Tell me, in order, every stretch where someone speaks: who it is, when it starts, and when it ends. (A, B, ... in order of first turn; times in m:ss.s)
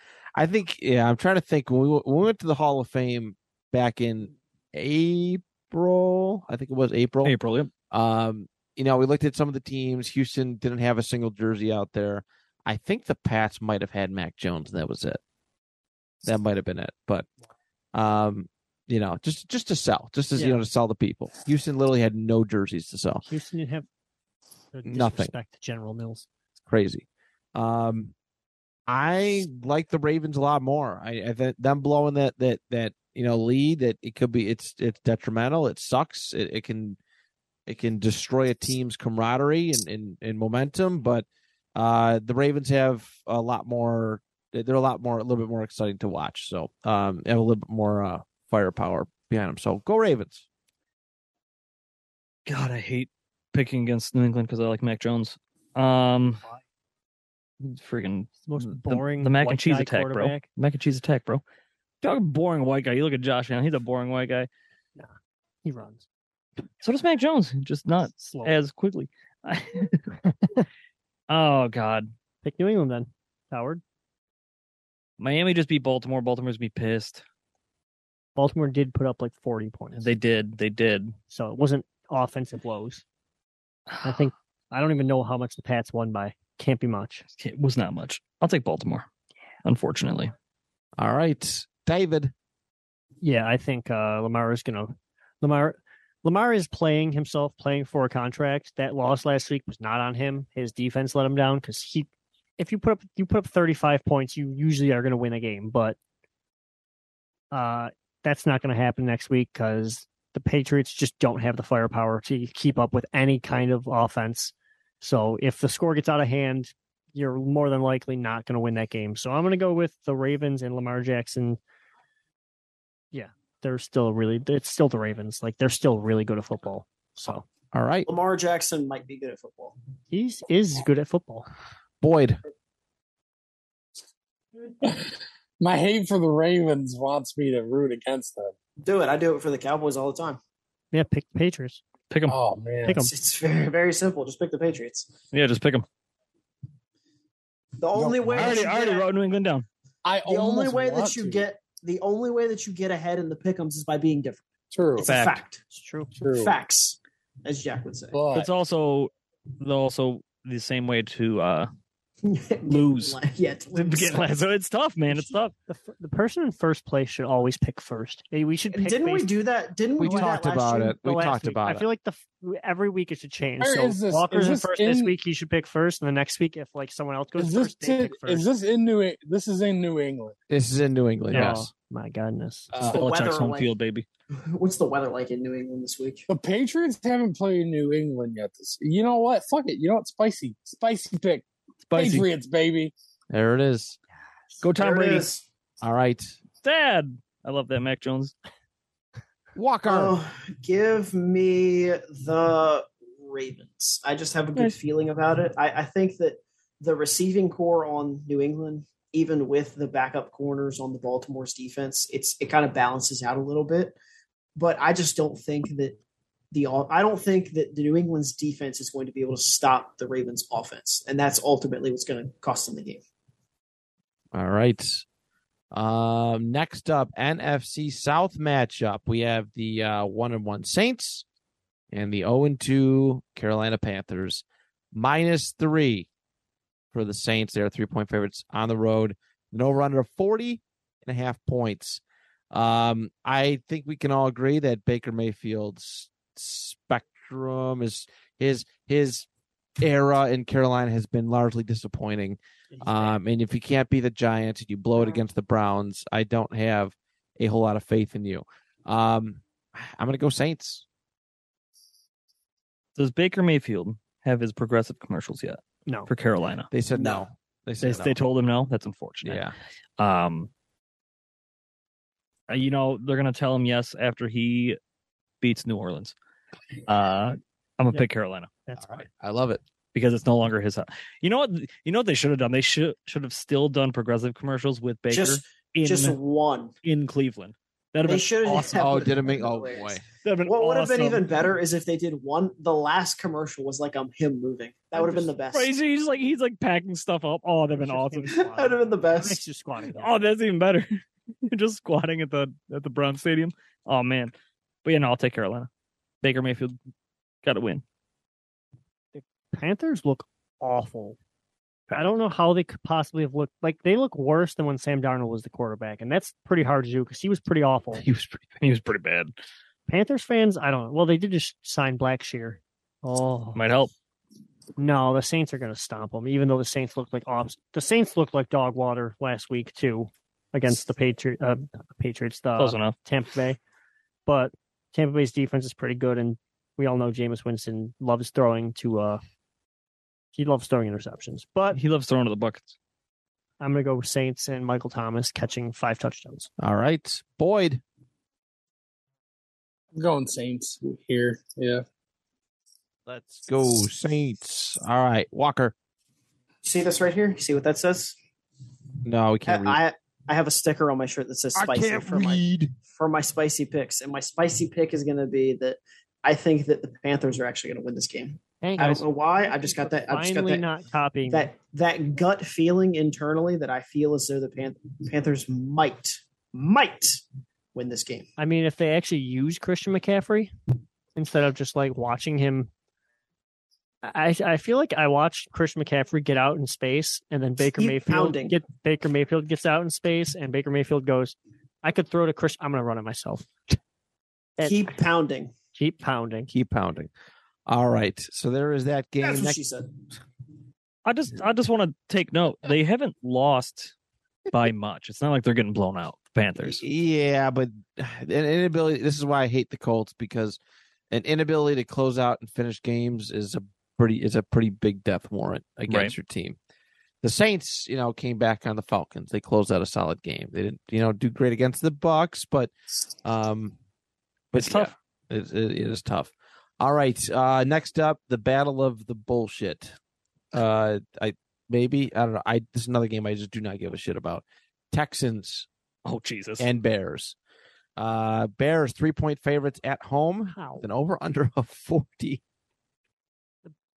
0:00.4-0:07.3 A
0:07.2-0:07.7 B
0:07.9-0:15.2 A
0:16.2-0:17.3 A
0:17.9-0:23.2 A
0:20.4-0:20.6 C
0:23.2-0:23.9 C
0:24.7-0:26.3 C
0:24.9-0:25.3 A
0:26.7-0:28.1 A
0:28.9-0:37.0 A
0:37.7-0:50.4 A
0:52.5-0:56.4 B
0:57.6-1:01.4 B
0:58.5-1:00.5 C
1:02.0-1:04.5 B
1:05.6-1:06.0 C
1:06.8-1:10.2 B
1:08.2-1:08.5 C
1:11.3-1:12.1 B
1:12.4-1:13.8 C
1:15.2-1:17.2 B
1:18.4-1:20.1 C
1:20.0-1:21.2 B
1:21.3-1:23.0 C
1:24.0-1:27.2 C
1:27.4-1:29.1 B
1:29.6-1:30.3 B
1:31.0-1:32.3 A
1:33.2-1:46.0 C
1:47.5-2:01.6 C
2:03.1-2:07.4 C
2:07.7-2:08.1 A
2:08.1-2:09.8 D
2:10.1-2:11.5 C
2:12.0-2:12.4 A
2:14.8-2:18.5 E
2:18.8-2:20.4 D
2:20.9-2:21.8 C
2:22.1-2:22.4 B
2:22.3-2:23.1 E
2:22.8-2:23.1 C
2:23.0-2:25.1 D
2:25.3-2:25.8 B
2:27.8-2:29.1 D
2:28.0-2:28.7 E
2:28.3-2:29.7 B
2:30.0-2:31.4 E
2:30.3-2:34.4 D
2:34.7-2:35.1 E
2:35.0-2:35.6 D
2:35.0-2:35.4 B
2:35.7-2:36.1 C
2:36.2-2:36.6 E
2:36.3-2:38.2 D
2:38.1-2:38.5 E
2:38.3-2:41.7 B
2:42.2-2:44.2 D
2:42.7-2:43.2 B
2:43.7-2:45.5 B
2:45.7-2:49.3 C
2:48.7-2:51.0 D
2:50.0-2:51.9 A
2:51.0-2:58.5 C
2:53.6-2:55.2 E
2:57.4-3:00.4 E
3:00.5-3:01.7 A
3:01.3-3:02.7 C
3:02.8-3:04.1 B
3:02.8-3:03.7 D
3:04.4-3:06.3 D
3:06.3-3:12.9 E
3:11.9-3:12.3 B
3:13.3-3:14.0 A
3:14.6-3:15.3 B
3:14.8-3:15.4 D
3:15.8-3:16.4 A
3:16.6-3:18.3 B
3:19.6-3:20.2 A
3:19.9-3:34.0 D
3:34.6-3:36.0 D
3:36.5-3:43.0 D
3:44.3-3:45.0 A
3:45.7-3:51.2 A
3:51.9-3:56.1 A
3:56.9-4:02.0 A
4:02.5-4:09.3 A
4:09.8-4:20.8 A
4:12.7-4:13.1 C
4:23.0-4:26.7 B
4:26.7-4:28.2 A
4:27.0-4:27.2 D
4:27.8-4:29.4 B
4:29.2-4:29.5 A
4:30.0-4:30.5 B
4:32.5-4:34.8 B
4:35.4-4:36.2 B
4:36.8-4:38.5 B
4:38.7-4:39.0 C
4:38.8-4:39.6 A
4:39.9-4:46.2 B
4:45.1-4:46.7 D
4:46.8-4:49.0 B
4:48.0-4:55.7 D
4:48.7-4:50.0 A
4:50.2-4:51.4 B
4:55.0-4:58.4 B
4:57.7-5:00.1 C
4:58.3-4:59.4 D
4:59.9-5:00.9 B
5:01.4-5:04.3 B
5:04.8-5:05.7 B
5:06.2-5:06.8 B
5:07.4-5:07.8 B
5:09.1-5:11.2 C
5:11.9-5:18.0 C
5:18.0-5:18.5 A
5:18.6-5:19.3 B
5:19.9-5:23.6 C
5:23.6-5:23.9 B
5:24.8-5:33.6 C
5:32.6-5:32.9 B
5:34.3-5:39.2 C
5:40.3-5:41.8 C
5:41.7-5:42.8 B
5:43.6-5:46.5 C
5:46.6-5:47.8 A
5:49.9-5:51.8 E
5:53.1-5:55.7 A
5:56.6-5:58.2 D
5:59.0-5:59.8 A
5:59.5-6:10.7 D
6:01.6-6:02.7 A
6:08.6-6:11.5 C
6:11.3-6:17.2 D
6:17.8-6:18.3 D
6:18.4-6:20.5 C
6:21.2-6:22.7 C
6:24.0-6:33.5 C
6:27.8-6:28.6 D
6:34.6-6:35.5 D
6:35.8-6:36.5 C
6:36.5-6:37.1 A
6:37.7-6:39.6 A
6:39.2-6:40.0 D
6:41.0-6:43.9 B
6:44.5-6:46.8 B
6:46.6-6:50.6 A
6:51.1-6:56.6 A
6:55.9-6:56.1 B
6:57.2-7:02.7 A
7:03.2-7:03.8 A
7:04.5-7:10.0 A
7:04.6-7:04.9 B
7:10.5-7:15.7 A
7:16.0-7:16.7 B
7:16.6-7:17.4 A
7:18.0-7:22.4 A
7:20.5-7:20.8 C